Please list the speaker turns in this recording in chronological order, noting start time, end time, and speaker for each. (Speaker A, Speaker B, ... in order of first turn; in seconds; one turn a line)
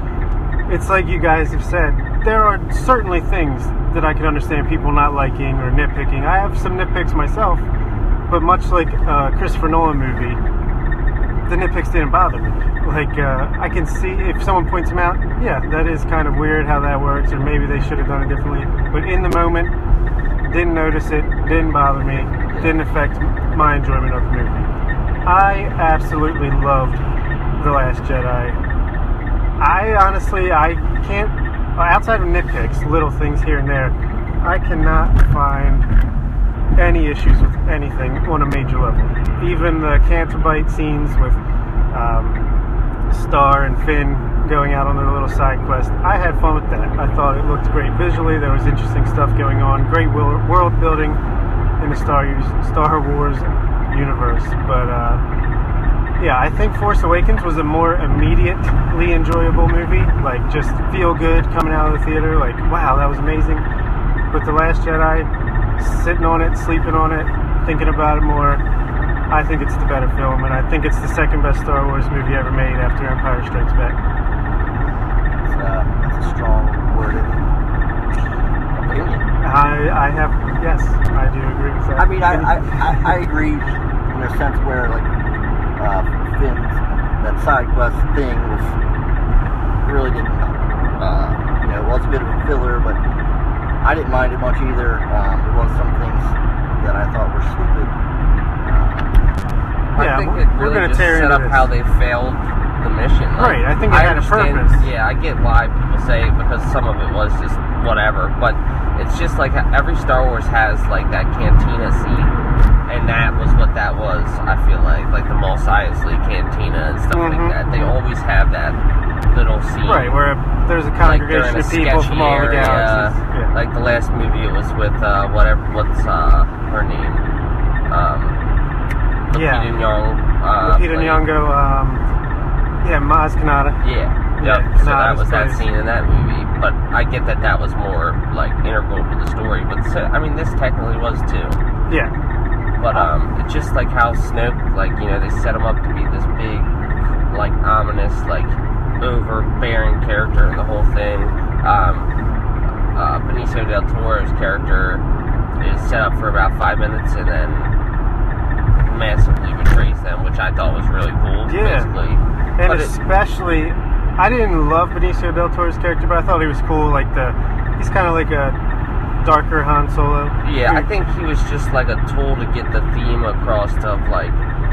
Speaker A: 0.7-7.7
Speaker A: 8.3-10.4
Speaker A: 11.5-19.7
Speaker A: 20.4-24.7
Speaker B: 22.5-22.8
Speaker A: 25.2-27.0
Speaker A: 27.6-28.6
Speaker A: 29.6-35.9
Speaker A: 36.8-41.4
Speaker A: 41.9-42.4
Speaker A: 43.1-51.2
Speaker A: 51.8-55.2
Speaker A: 56.2-63.6
Speaker A: 64.3-68.6
Speaker A: 69.3-74.0
Speaker B: 75.5-77.5
Speaker B: 78.8-79.2
Speaker A: 79.4-83.1
Speaker B: 82.0-85.1
Speaker B: 85.8-88.8
Speaker B: 89.8-93.0
Speaker B: 93.8-97.9
Speaker B: 98.6-99.2
Speaker C: 99.9-112.3
Speaker A: 100.0-101.7
Speaker A: 103.4-104.8
Speaker C: 112.9-118.8
Speaker A: 117.1-118.0
Speaker C: 119.3-120.2
Speaker A: 119.8-123.5
Speaker C: 121.0-128.4
Speaker C: 129.3-131.2
Speaker A: 129.3-129.7
Speaker A: 130.6-132.0
Speaker A: 132.8-133.8
Speaker C: 133.8-141.6
Speaker A: 134.4-135.6
Speaker A: 141.9-142.1
Speaker C: 142.8-152.1
Speaker C: 152.9-155.0
Speaker C: 155.6-157.8
Speaker C: 158.8-162.9
Speaker A: 161.5-161.9
Speaker A: 162.6-168.6
Speaker A: 169.2-170.9
Speaker C: 170.4-174.4